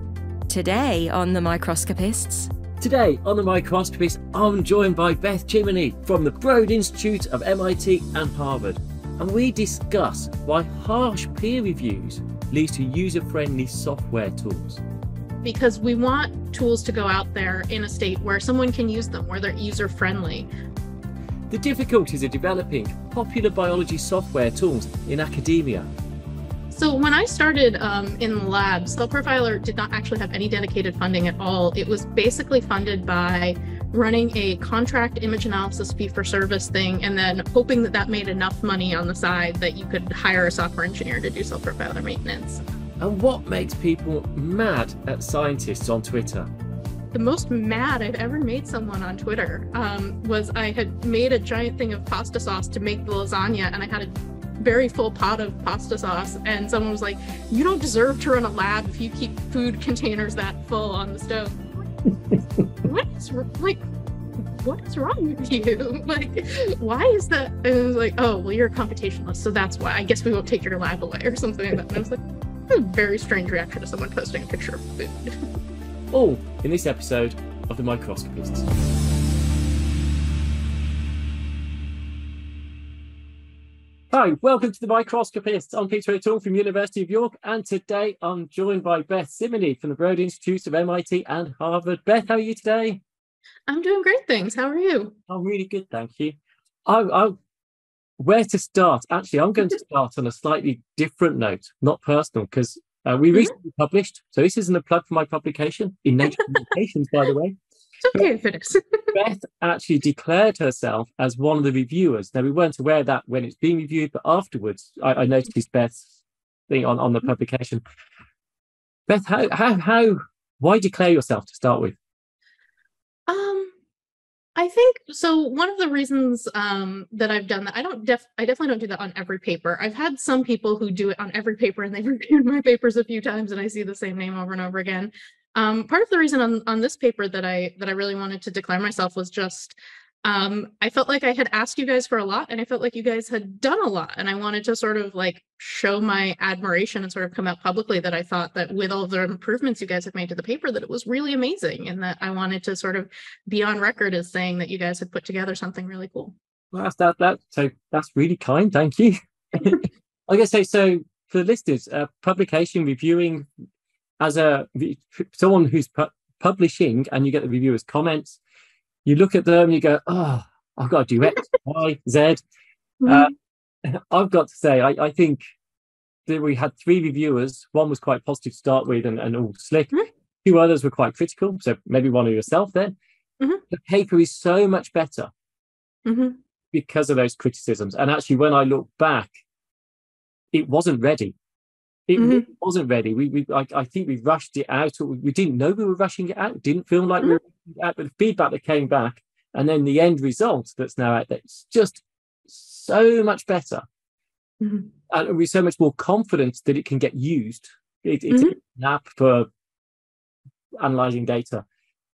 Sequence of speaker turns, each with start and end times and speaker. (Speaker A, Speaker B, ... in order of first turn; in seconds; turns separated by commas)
Speaker A: 0.5-2.5, Speaker B: 2.8-14.8, Speaker C: 15.4-20.5, Speaker B: 21.5-25.9, Speaker C: 26.7-42.6, Speaker B: 43.0-46.5, Speaker C: 47.1-61.6, Speaker C: 62.8-63.8, Speaker C: 64.6-75.3, Speaker B: 76.1-78.7, Speaker B: 84.1-93.0, Speaker C: 93.7-95.2, Speaker B: 95.3-97.4, Speaker B: 98.2-107.6, Speaker C: 108.0-109.1, Speaker B: 109.1-116.1, Speaker B: 116.7-117.8, Speaker B: 119.1-122.0, Speaker C: 123.3-123.7, Speaker C: 124.5-156.3, Speaker B: 156.7-163.5, Speaker B: 164.2-168.4, Speaker B: 169.0-172.4, Speaker C: 173.0-173.3, Speaker B: 173.1-173.3, Speaker B: 173.8-175.4, Speaker B: 176.3-179.9, Speaker B: 180.4-182.9, Speaker B: 183.7-185.3, Speaker C: 186.1-186.4, Speaker B: 186.7-189.3, Speaker B: 190.5-191.3, Speaker B: 192.1-203.8, Speaker C: 192.2-192.4, Speaker C: 204.6-204.9, Speaker B: 205.1-209.5, Speaker C: 208.3-208.6, Speaker B: 210.8-211.6